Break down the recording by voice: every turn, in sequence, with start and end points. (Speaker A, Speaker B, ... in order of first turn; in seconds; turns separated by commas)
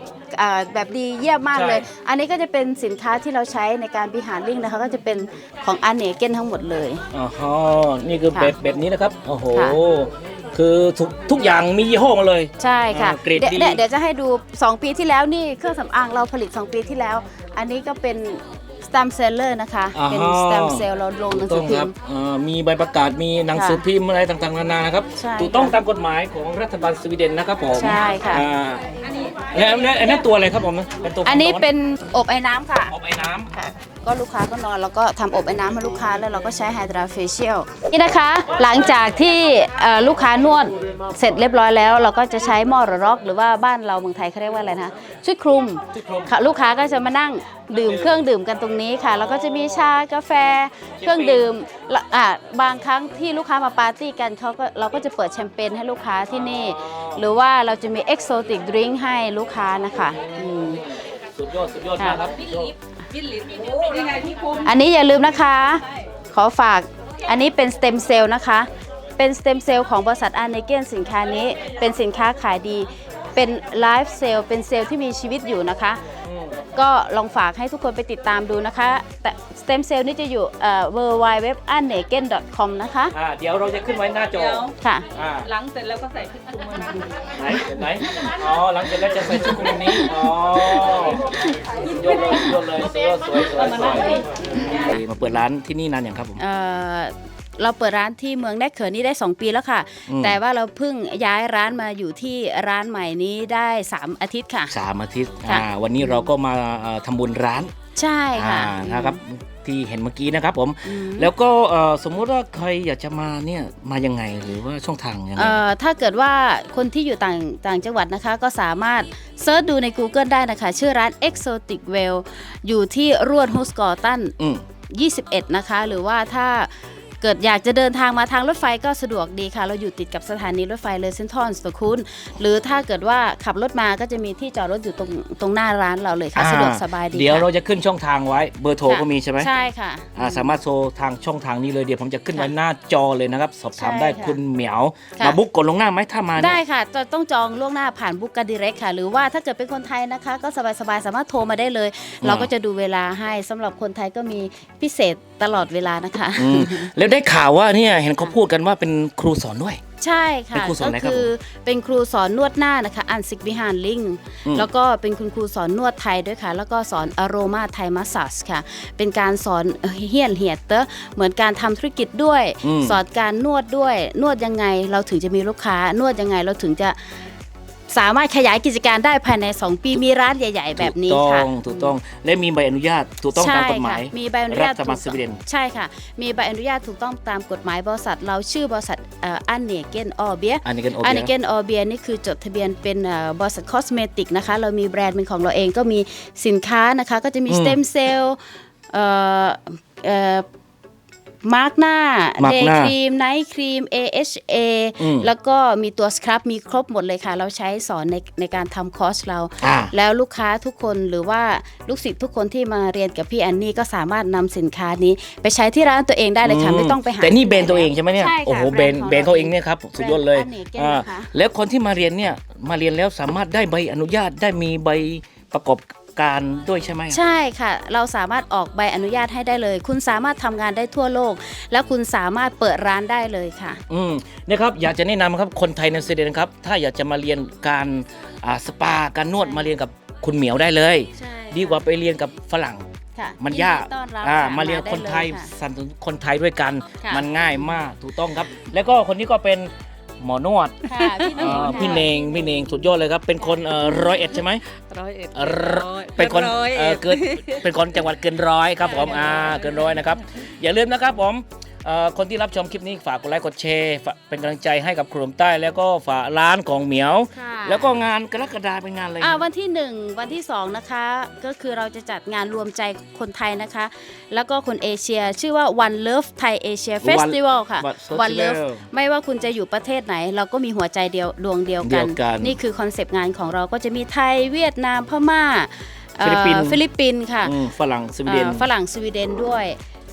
Speaker A: 0.3-7.0, Speaker B: 1.5-1.9, Speaker B: 7.1-13.8, Speaker A: 9.5-9.8, Speaker A: 12.6-21.9, Speaker B: 19.9-31.7, Speaker A: 23.6-23.8, Speaker A: 25.2-25.8, Speaker A: 27.7-28.4, Speaker A: 31.2-32.9, Speaker B: 32.9-33.5, Speaker A: 33.5-60.8, Speaker B: 45.9-46.4, Speaker B: 47.8-48.1, Speaker B: 49.1-49.9, Speaker B: 51.0-51.5, Speaker B: 56.3-57.3, Speaker B: 60.2-62.7, Speaker A: 62.0-62.3, Speaker C: 63.2-64.6, Speaker A: 64.6-76.0, Speaker B: 76.2-76.6, Speaker A: 76.8-83.1, Speaker B: 83.1-85.5, Speaker C: 84.3-84.7, Speaker A: 84.8-85.1, Speaker C: 85.5-87.1, Speaker B: 87.3-96.4, Speaker A: 89.6-90.1, Speaker A: 96.4-104.7, Speaker B: 100.1-100.4, Speaker B: 104.7-107.7, Speaker A: 105.5-106.3, Speaker A: 108.0-109.2, Speaker B: 108.3-115.6, Speaker A: 110.8-111.3, Speaker A: 115.4-124.3, Speaker A: 124.9-126.7, Speaker A: 127.2-137.5, Speaker B: 136.3-139.5, Speaker A: 138.9-140.6, Speaker B: 140.2-146.6, Speaker A: 143.8-144.4, Speaker A: 146.4-156.9, Speaker B: 152.2-152.5, Speaker B: 156.4-159.8, Speaker A: 160.0-177.2, Speaker B: 160.5-161.3, Speaker B: 172.6-173.0, Speaker A: 177.9-181.9, Speaker B: 180.8-185.4, Speaker A: 183.4-198.4, Speaker B: 190.7-191.3, Speaker B: 197.5-197.8, Speaker A: 198.9-200.4, Speaker A: 201.4-221.3, Speaker B: 202.4-202.9, Speaker B: 205.0-205.3, Speaker B: 209.6-209.9, Speaker B: 216.4-227.2, Speaker A: 227.1-233.8, Speaker B: 233.9-242.9, Speaker A: 239.4-239.7, Speaker A: 241.2-241.9, Speaker A: 243.2-245.5, Speaker B: 243.4-254.7, Speaker C: 250.9-252.7, Speaker A: 250.9-252.1, Speaker C: 254.2-257.7, Speaker B: 255.3-269.4, Speaker C: 259.0-260.1, Speaker A: 267.3-268.0, Speaker A: 269.2-287.6, Speaker B: 277.0-278.9, Speaker B: 281.8-282.6, Speaker B: 286.2-286.8, Speaker B: 287.4-288.7, Speaker A: 288.3-289.8